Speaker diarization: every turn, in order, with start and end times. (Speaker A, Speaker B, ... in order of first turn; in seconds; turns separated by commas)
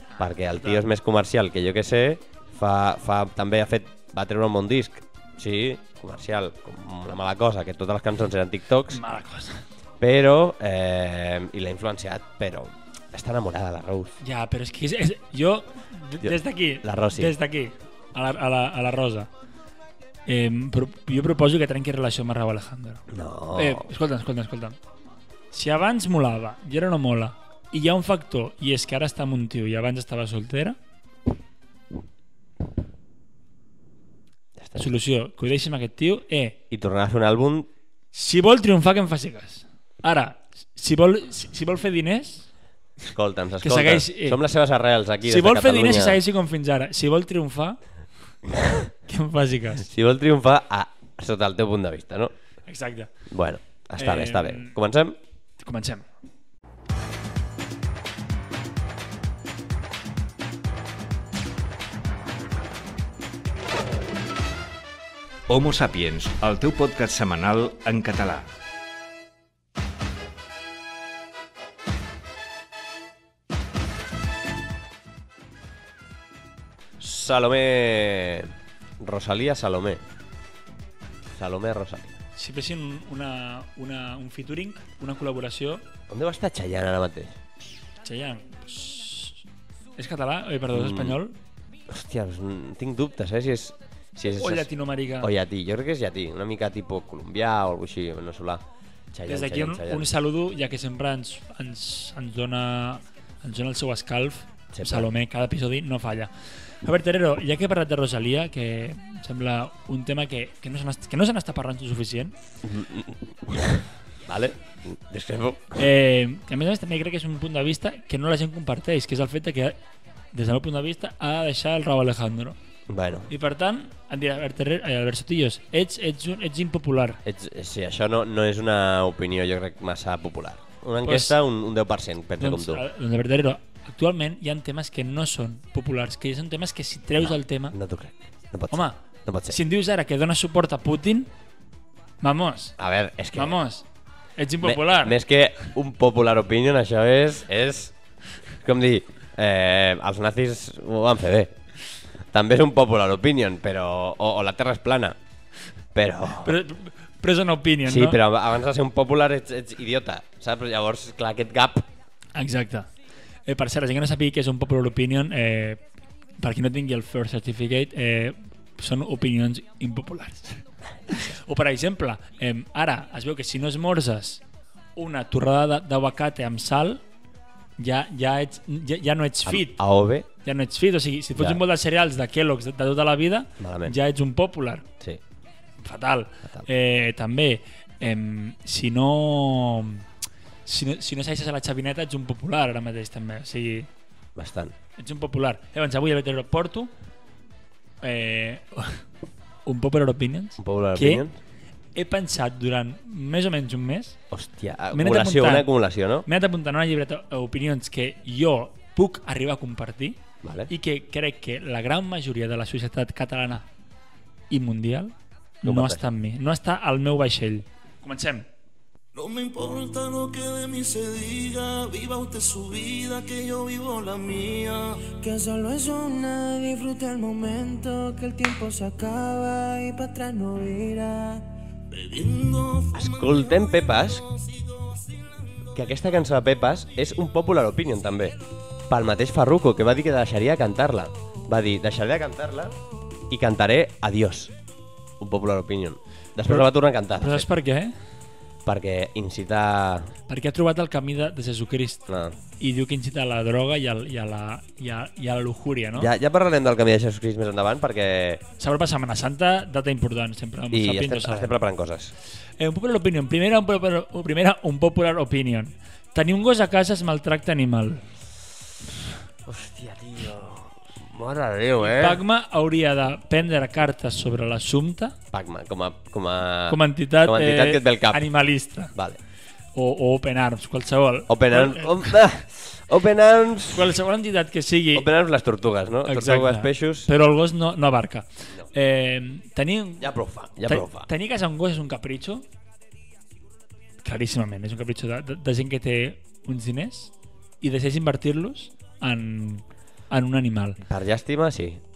Speaker A: 0.2-0.8, Speaker B: 0.2-9.0, Speaker A: 8.9-9.6, Speaker B: 10.0-14.1, Speaker A: 14.2-19.3, Speaker B: 16.2-17.3, Speaker A: 20.2-23.0, Speaker B: 23.1-23.9, Speaker A: 23.6-24.8, Speaker A: 25.5-30.8, Speaker B: 34.6-35.0, Speaker A: 34.8-36.6, Speaker B: 36.7-37.7, Speaker A: 38.1-42.5, Speaker B: 43.1-46.2, Speaker A: 43.6-44.4, Speaker A: 45.2-47.8, Speaker B: 48.5-48.9, Speaker A: 49.1-49.8, Speaker B: 49.8-52.3, Speaker A: 52.7-53.1, Speaker B: 53.3-55.2, Speaker A: 54.0-54.8, Speaker A: 55.6-56.1, Speaker C: 65.5-68.5, Speaker B: 77.0-80.0, Speaker B: 81.3-82.1, Speaker A: 82.3-85.8, Speaker B: 86.1-87.4, Speaker A: 88.0-89.4, Speaker A: 90.0-91.3, Speaker B: 90.7-91.2, Speaker B: 91.9-94.7, Speaker A: 94.3-95.3, Speaker B: 95.2-100.1, Speaker A: 99.3-106.3, Speaker B: 104.7-105.1, Speaker A: 106.8-112.3, Speaker B: 112.6-115.8, Speaker A: 115.8-119.8, Speaker A: 120.3-122.6, Speaker B: 122.9-123.3, Speaker A: 123.3-127.2, Speaker B: 127.2-132.8, Speaker A: 131.0-131.3, Speaker A: 132.4-137.8, Speaker B: 137.2-139.6, Speaker A: 138.7-141.3, Speaker A: 142.2-142.7, Speaker B: 142.8-143.6, Speaker A: 143.3-143.8, Speaker A: 144.4-145.2, Speaker B: 144.6-147.9, Speaker B: 148.6-151.5, Speaker B: 152.3-155.2, Speaker B: 155.9-156.6, Speaker A: 156.4-158.2, Speaker B: 157.8-161.8, Speaker A: 162.3-162.9, Speaker A: 163.4-165.8, Speaker A: 166.4-174.4, Speaker A: 174.9-177.0, Speaker A: 177.8-179.8, Speaker B: 179.4-180.2, Speaker A: 180.4-184.8, Speaker B: 181.3-181.6, Speaker B: 183.6-183.9, Speaker A: 185.8-190.0, Speaker A: 190.7-193.9, Speaker B: 194.3-194.7, Speaker A: 195.0-196.9, Speaker A: 198.0-199.0, Speaker A: 199.7-201.2, Speaker B: 200.6-201.4, Speaker A: 201.9-204.2, Speaker B: 204.3-206.2, Speaker A: 204.9-205.7, Speaker A: 206.2-213.7, Speaker B: 210.4-210.7, Speaker A: 214.5-218.5, Speaker B: 215.6-216.0, Speaker D: 219.1-225.0, Speaker E: 225.1-231.5, Speaker D: 231.9-235.7, Speaker B: 232.9-234.2, Speaker B: 235.7-238.4, Speaker B: 238.9-242.7, Speaker B: 243.3-244.5, Speaker B: 245.2-247.5, Speaker A: 247.2-247.9, Speaker B: 248.6-250.1, Speaker A: 250.3-252.0, Speaker B: 252.1-252.4, Speaker A: 252.6-256.1, Speaker B: 255.9-258.4, Speaker A: 258.6-261.6, Speaker B: 260.7-262.1, Speaker A: 262.6-268.0, Speaker B: 269.4-272.2, Speaker A: 271.8-275.1, Speaker B: 275.3-278.2, Speaker A: 276.7-278.9, Speaker B: 278.9-279.2, Speaker A: 279.7-282.2, Speaker B: 281.3-283.9, Speaker A: 283.7-285.1, Speaker B: 284.9-287.1, Speaker A: 286.1-290.1, Speaker B: 290.0-291.1, Speaker A: 290.6-292.4, Speaker A: 294.0-300.8, Speaker B: 300.9-301.8